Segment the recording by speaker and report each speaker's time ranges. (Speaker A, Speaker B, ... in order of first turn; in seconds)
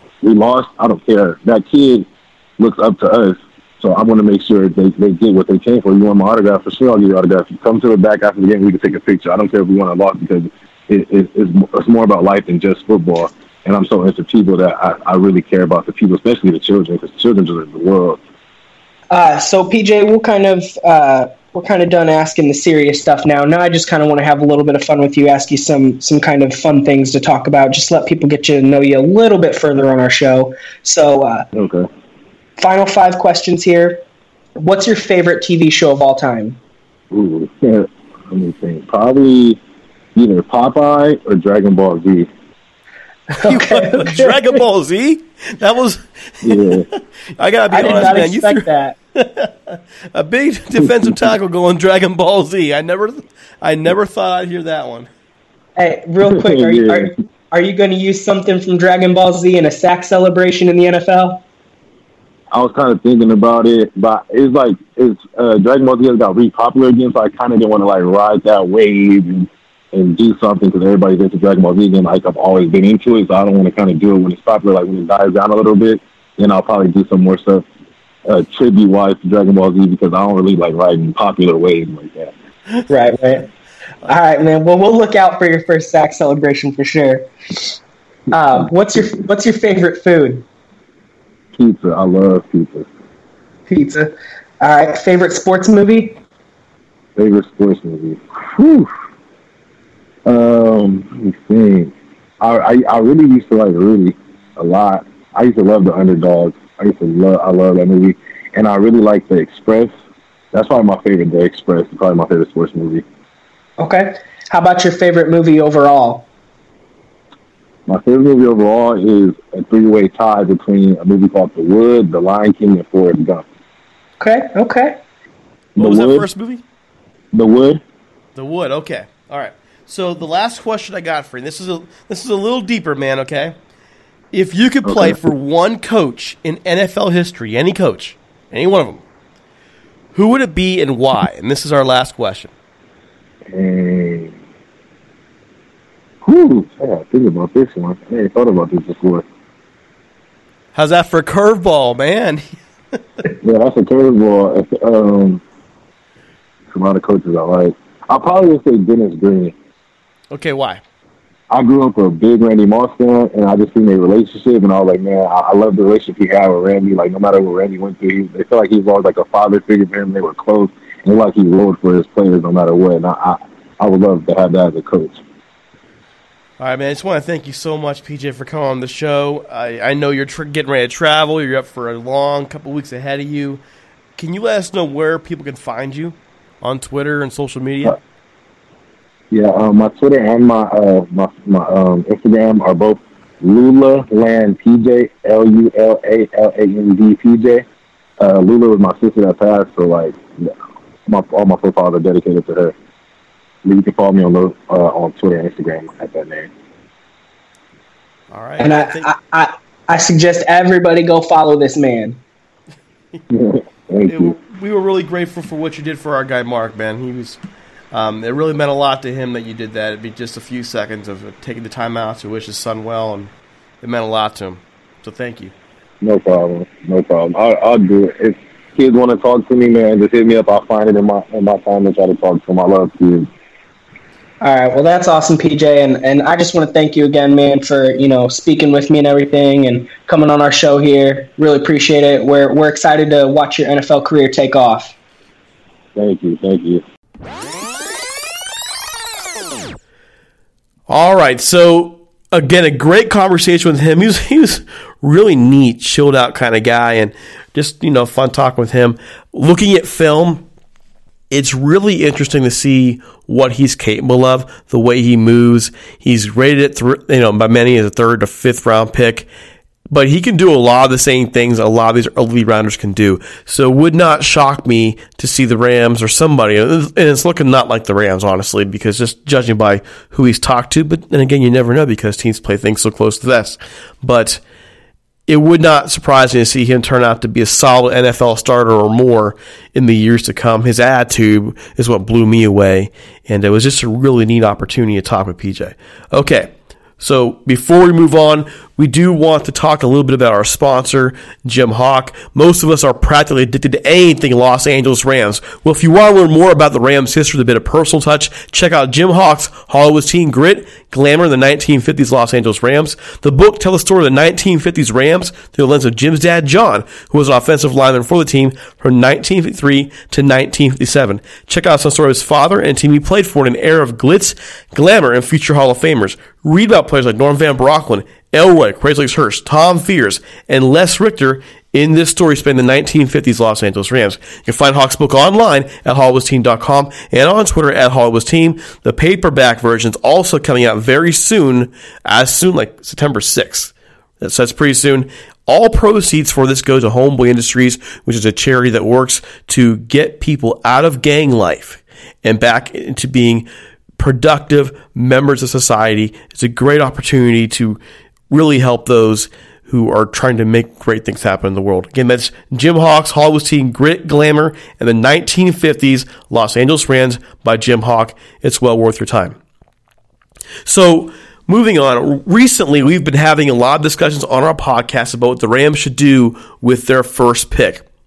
Speaker A: 0.2-2.1, 2.6-18.2, 31.5-31.9, 37.1-39.6, 40.2-42.3, 46.4-46.9, 56.3-57.1, 62.5-77.6, 78.3-82.3, 91.5-92.9, 97.2-98.9, 100.3-109.9, 110.5-113.0, 117.9-123.4, 125.8-126.2, 127.3-127.8, 134.8-135.2, 143.5-144.3, 146.2-149.2, 153.4-155.4, 156.7-159.5, 161.5-175.2, 189.3-197.7, 198.2-200.5, 201.1-202.7, 203.7-206.5, 213.3-214.3, 226.0-233.3, 246.0-246.8
Speaker B: 19.1-31.5, 32.6-34.0, 34.6-36.6, 43.3-44.4, 47.7-49.0, 55.8-61.4, 82.9-83.5, 84.1-87.3, 88.3-90.5, 93.7-96.2, 113.8-116.3, 124.2-125.0, 208.6-212.2, 234.4-244.9
Speaker C: 43.4-46.8, 47.4-48.6, 49.2-55.1, 125.8-126.6, 128.4-133.6, 134.3-139.0, 140.1-142.5, 150.8-152.5, 160.3-160.8, 176.6-183.6, 184.2-188.0, 208.3-209.1, 214.1-217.4, 217.9-225.5, 250.9-260.4, 261.3-269.3, 269.9-284.4, 285.3-353.5, 354.0-357.8, 358.3-369.4, 370.7-377.8